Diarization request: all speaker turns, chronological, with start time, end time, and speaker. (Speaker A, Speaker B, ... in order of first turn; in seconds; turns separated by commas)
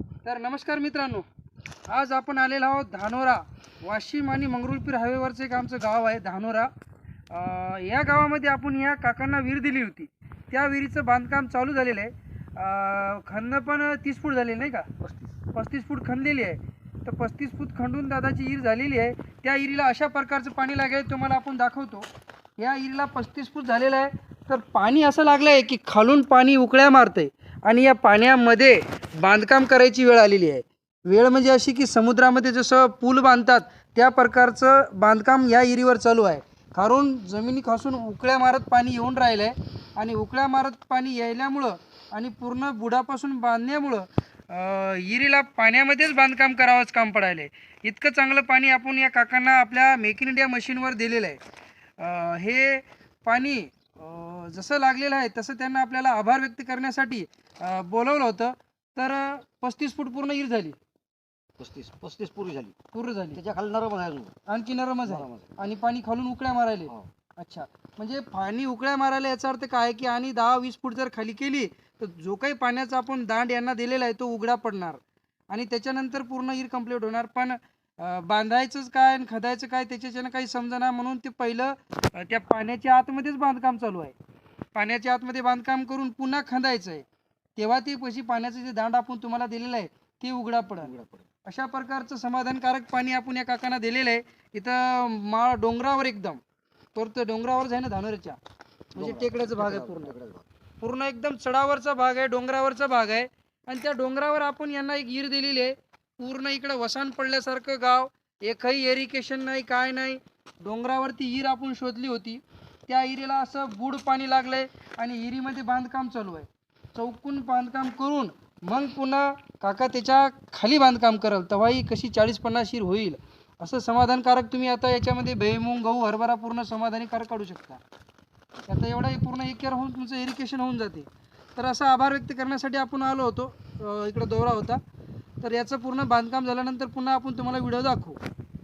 Speaker A: 0.2-1.3, Speaker A: 1.9-6.7, Speaker A: 7.3-14.9, Speaker B: 15.0-15.3, Speaker A: 15.5-22.1, Speaker A: 22.6-51.4, Speaker A: 52.0-60.8, Speaker B: 61.6-62.8, Speaker A: 62.9-63.4, Speaker B: 63.3-64.3, Speaker A: 64.5-84.2, Speaker B: 65.1-65.6, Speaker A: 84.8-87.0, Speaker A: 87.6-90.9, Speaker B: 90.8-91.3, Speaker A: 91.5-96.4, Speaker A: 97.0-98.4, Speaker A: 98.9-100.2, Speaker B: 99.0-100.5, Speaker A: 100.8-127.8, Speaker A: 128.7-134.8, Speaker A: 135.4-138.2